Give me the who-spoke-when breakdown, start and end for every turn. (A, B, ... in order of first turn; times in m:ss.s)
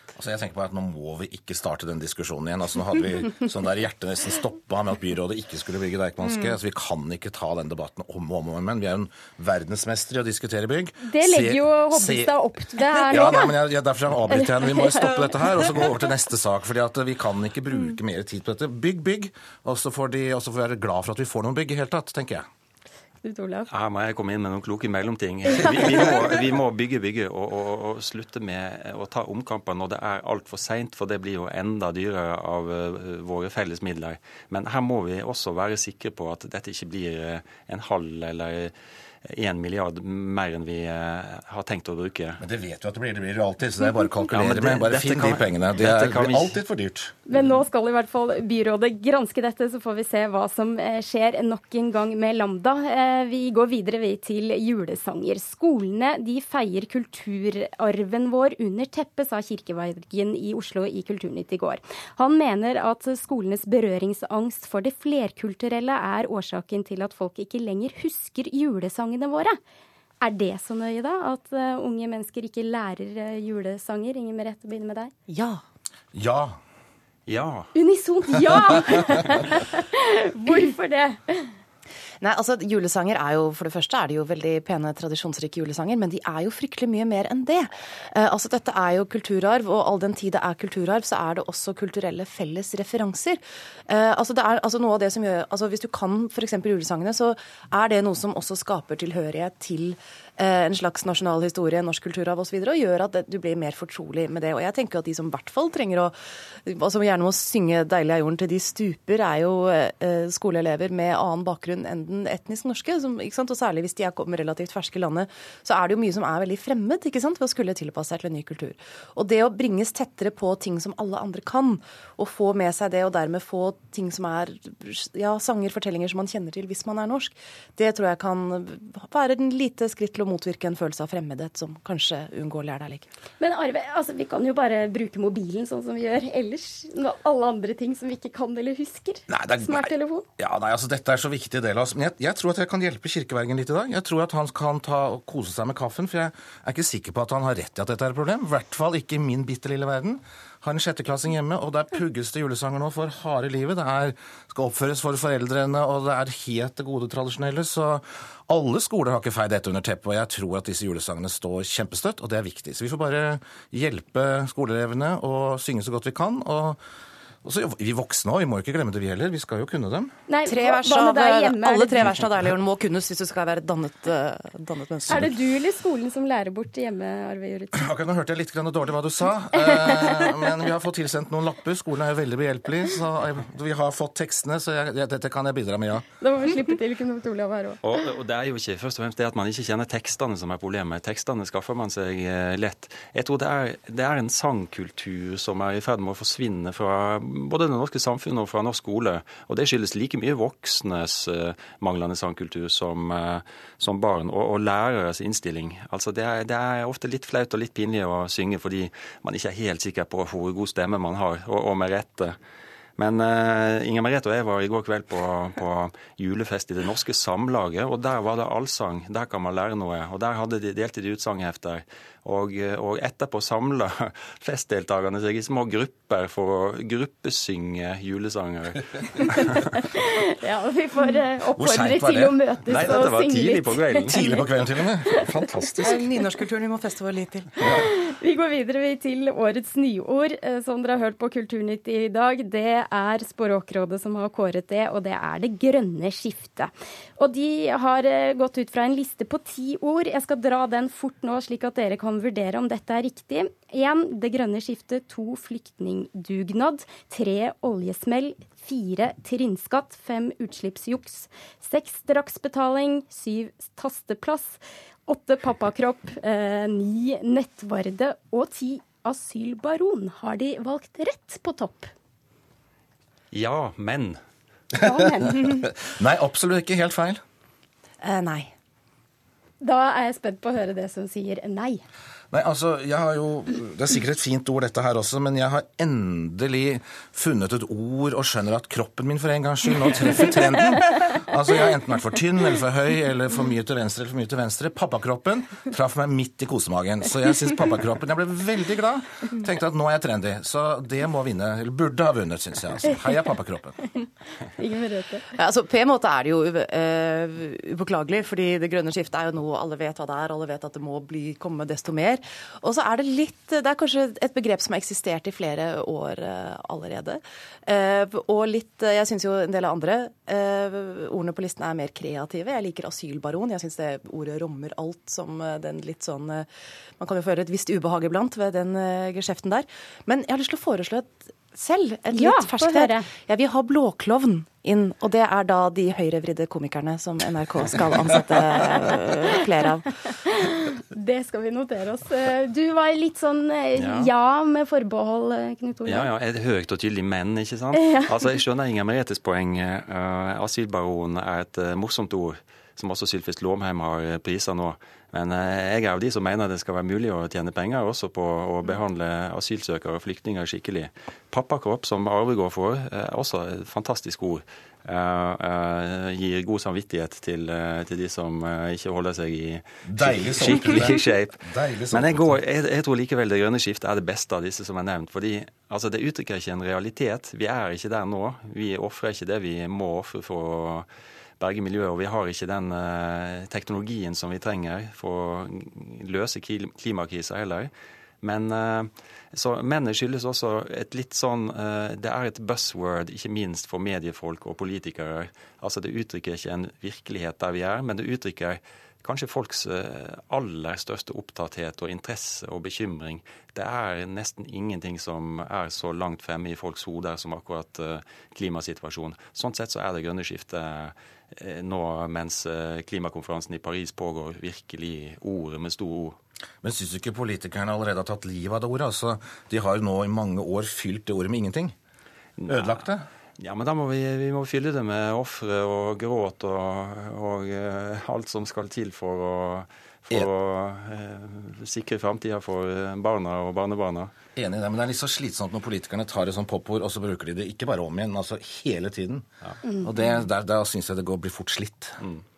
0:00.2-0:12.4 A
0:11.0-0:13.5 B
0:13.0-0:22.5 A
0:14.3-0:15.3 B
0:23.2-0:23.7 B
0:23.7-0:38.7 C
0:39.2-0:42.4 C
0:42.4-0:47.2 A
0:44.3-0:46.6 C
0:47.3-1:09.6 B
1:10.2-1:15.1 B
1:15.3-1:15.6 D
1:16.1-1:16.6 A
1:17.3-1:17.7 C
1:17.8-1:21.5 B
1:22.2-2:13.1 D
2:13.4-2:20.3 B
2:19.3-2:46.8 A
2:47.4-2:50.1 A
2:50.3-2:52.1 B
2:50.5-2:55.4 D
2:55.1-2:57.9 B
2:57.7-3:06.1 A
2:59.6-3:00.3 B
3:06.2-3:07.8 B
3:07.8-3:32.4 C
3:33.0-3:49.5 C
3:50.0-3:54.4 B
3:51.6-3:52.4 A
3:52.7-3:54.2 C
3:54.0-3:56.0 A
3:55.8-3:57.8 D
3:57.7-4:31.9 B
4:33.3-4:34.2 C
4:34.8-4:35.6 B
4:35.2-4:37.2 A
4:38.0-4:38.5 D
4:39.6-4:41.8 B
4:42.3-5:03.8 A
5:04.6-5:05.3 B
5:05.3-5:26.5 D
5:27.0-5:39.9 D
5:32.1-5:33.1 B
5:40.2-5:46.1 B
5:43.8-5:44.1 C
5:45.8-6:11.4 C
6:09.8-6:12.4 A
6:11.9-6:20.9 C
6:21.4-6:27.7 C
6:28.2-6:56.2 C
6:56.6-7:01.8 A
7:02.4-7:02.9 C
7:02.5-7:03.1 A
7:03.4-7:14.1 C
7:14.4-7:19.3 A
7:19.8-7:22.0 A